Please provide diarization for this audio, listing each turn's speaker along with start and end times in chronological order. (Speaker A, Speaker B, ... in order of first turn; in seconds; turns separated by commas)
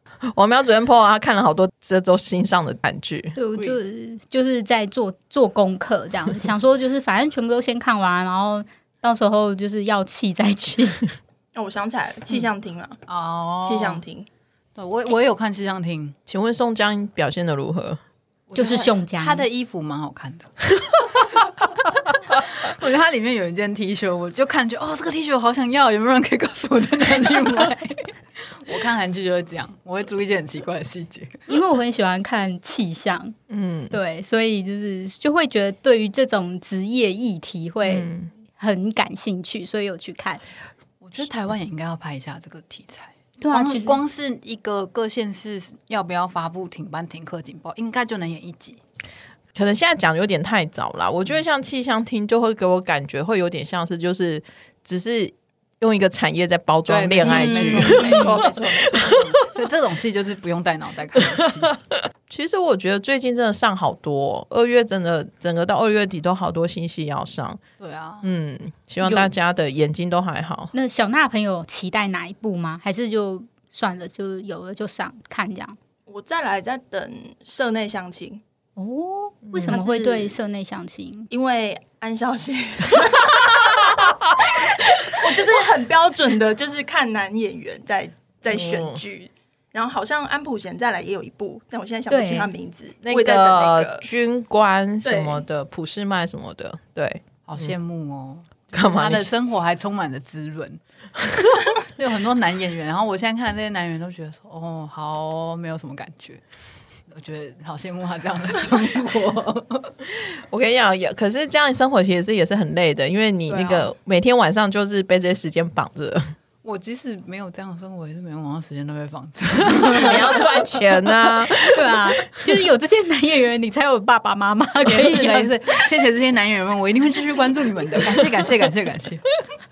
Speaker A: 0.3-3.4, Speaker B: 3.4-11.0, Speaker C: 11.5-13.0, Speaker D: 13.1-14.0, Speaker C: 13.6-14.3, Speaker D: 14.8-16.1, Speaker A: 16.3-18.0, Speaker D: 18.5-20.5, Speaker B: 18.5-19.4, Speaker D: 22.3-31.5, Speaker B: 31.5-33.4, Speaker A: 33.5-34.0, Speaker B: 33.9-40.4, Speaker A: 37.8-38.3, Speaker D: 41.0-48.8, Speaker B: 43.4-44.0, Speaker A: 49.5-59.4, Speaker D: 56.9-61.7, Speaker C: 57.2-59.4, Speaker A: 61.2-67.6, Speaker D: 67.8-68.3, Speaker A: 68.2-70.7, Speaker B: 69.0-69.3, Speaker B: 70.7-75.8, Speaker C: 76.1-78.4, Speaker B: 78.8-81.3, Speaker A: 79.5-79.8, Speaker C: 79.7-80.4, Speaker C: 81.3-94.0, Speaker A: 88.5-89.0, Speaker B: 92.1-92.5, Speaker A: 93.0-97.7, Speaker C: 95.0-95.4, Speaker D: 97.5-100.8, Speaker A: 98.7-99.3, Speaker D: 101.8-106.4, Speaker D: 107.1-109.9, Speaker A: 110.3-116.2, Speaker D: 113.5-113.9, Speaker D: 116.6-120.8, Speaker A: 119.8-122.0, Speaker B: 121.5-125.9, Speaker D: 124.8-129.3